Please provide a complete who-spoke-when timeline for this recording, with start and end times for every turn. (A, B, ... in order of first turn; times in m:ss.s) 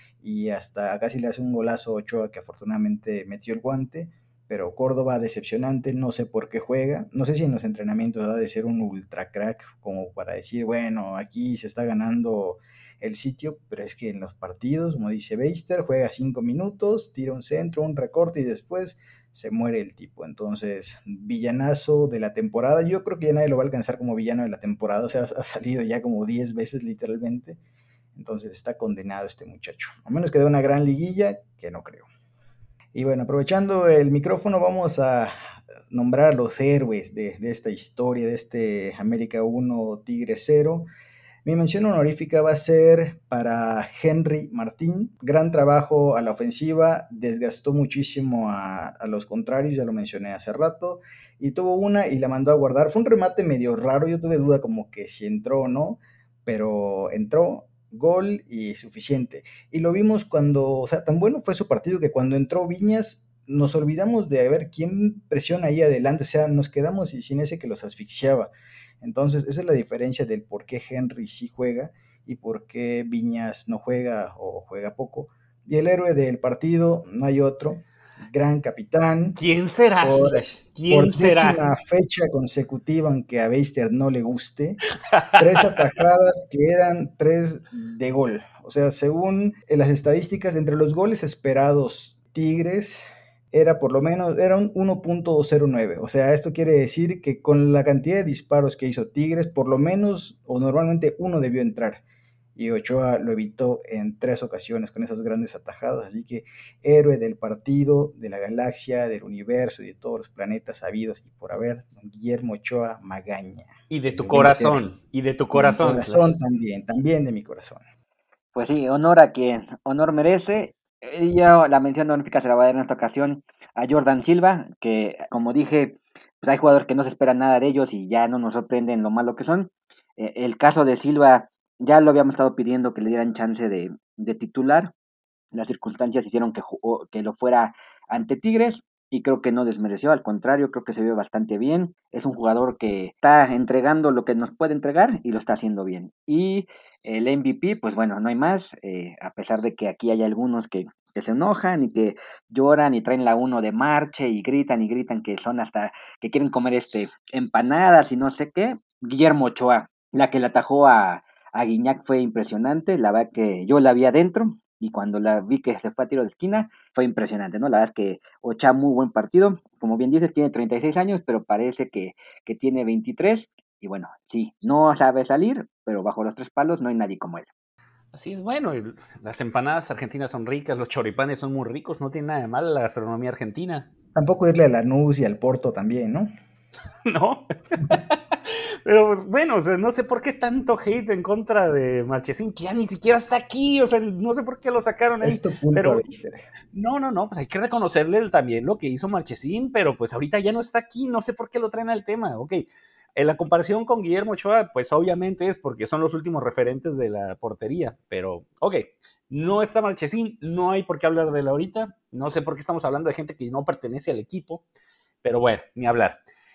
0:00.2-0:27.6 A
0:28.2-0:32.1 A
0:32.9-0:35.3 A
0:35.9-0:40.9 A
0:41.4-1:08.5 A
1:09.0-1:19.4 A
1:19.4-1:21.6 B
1:20.0-1:24.8 A
1:25.1-1:25.4 B
1:25.4-1:42.0 A
1:42.6-1:54.8 A
1:53.9-1:56.4 B
1:55.5-1:57.8 A
1:58.6-2:14.9 C
2:15.5-2:57.5 C
2:58.1-3:03.9 B
3:04.2-3:06.3 A
3:07.1-3:16.0 B
3:15.2-3:16.4 A
3:16.7-3:34.6 B
3:35.2-3:36.2 B